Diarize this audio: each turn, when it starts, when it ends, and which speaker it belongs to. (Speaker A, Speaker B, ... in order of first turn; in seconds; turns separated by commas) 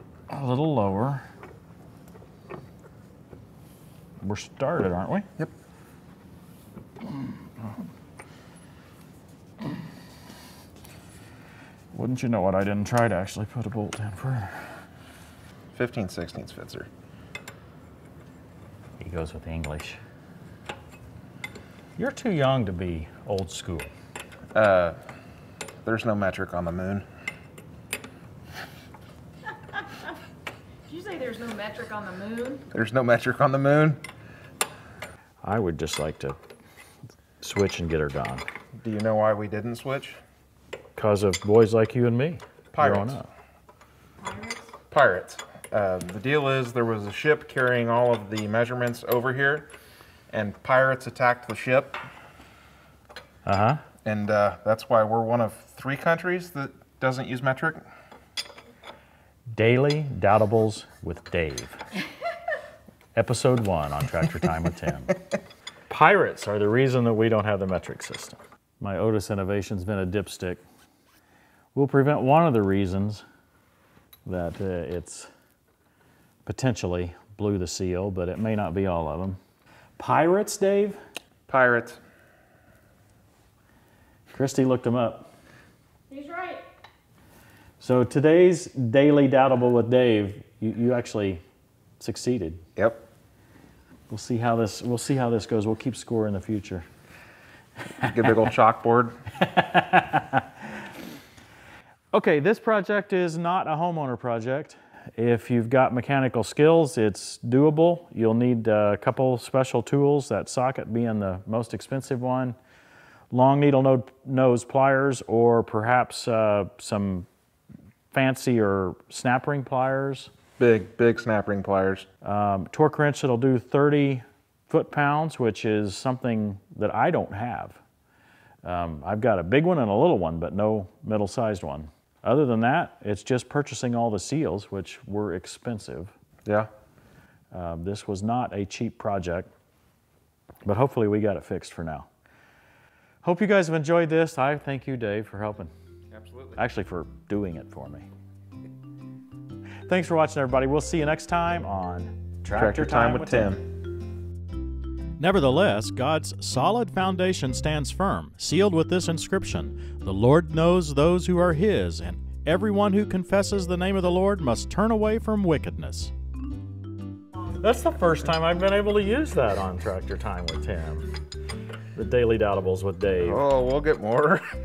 Speaker A: 0.3-1.2, Speaker A: 4.2-5.3, Speaker A: 7.0-7.8, Speaker A: 11.9-14.8, Speaker B: 15.7-16.9, Speaker A: 19.0-20.0, Speaker A: 22.0-23.9, Speaker B: 24.5-25.0, Speaker B: 25.8-27.1, Speaker C: 30.9-32.6, Speaker B: 32.7-34.0, Speaker A: 35.4-36.4, Speaker A: 37.4-38.4, Speaker B: 38.8-40.2, Speaker A: 41.0-43.3, Speaker B: 42.7-43.2, Speaker C: 44.2-44.7, Speaker B: 44.9-49.7, Speaker B: 50.3-52.0, Speaker A: 53.4-53.8, Speaker B: 54.0-57.8, Speaker A: 59.5-61.8, Speaker A: 63.1-65.2, Speaker A: 65.9-70.6, Speaker A: 71.7-73.2, Speaker A: 74.2-75.3, Speaker A: 76.5-79.4, Speaker A: 80.0-81.0, Speaker B: 81.5-82.0, Speaker A: 84.3-85.3, Speaker C: 86.1-86.6, Speaker A: 87.8-91.4, Speaker A: 92.0-92.6, Speaker B: 92.8-93.0, Speaker A: 94.1-96.8, Speaker B: 98.0-99.1, Speaker A: 99.4-100.5, Speaker A: 102.1-112.5, Speaker A: 113.3-117.3, Speaker A: 118.1-120.3, Speaker B: 120.6-122.1, Speaker A: 122.2-127.8, Speaker A: 128.6-136.1, Speaker A: 137.5-139.5, Speaker A: 140.6-142.1, Speaker A: 143.2-145.7, Speaker B: 146.1-146.6, Speaker A: 146.6-148.1, Speaker A: 149.9-153.5, Speaker B: 152.5-153.6, Speaker A: 155.2-166.1, Speaker A: 167.5-171.1, Speaker A: 171.9-173.4, Speaker B: 173.2-174.4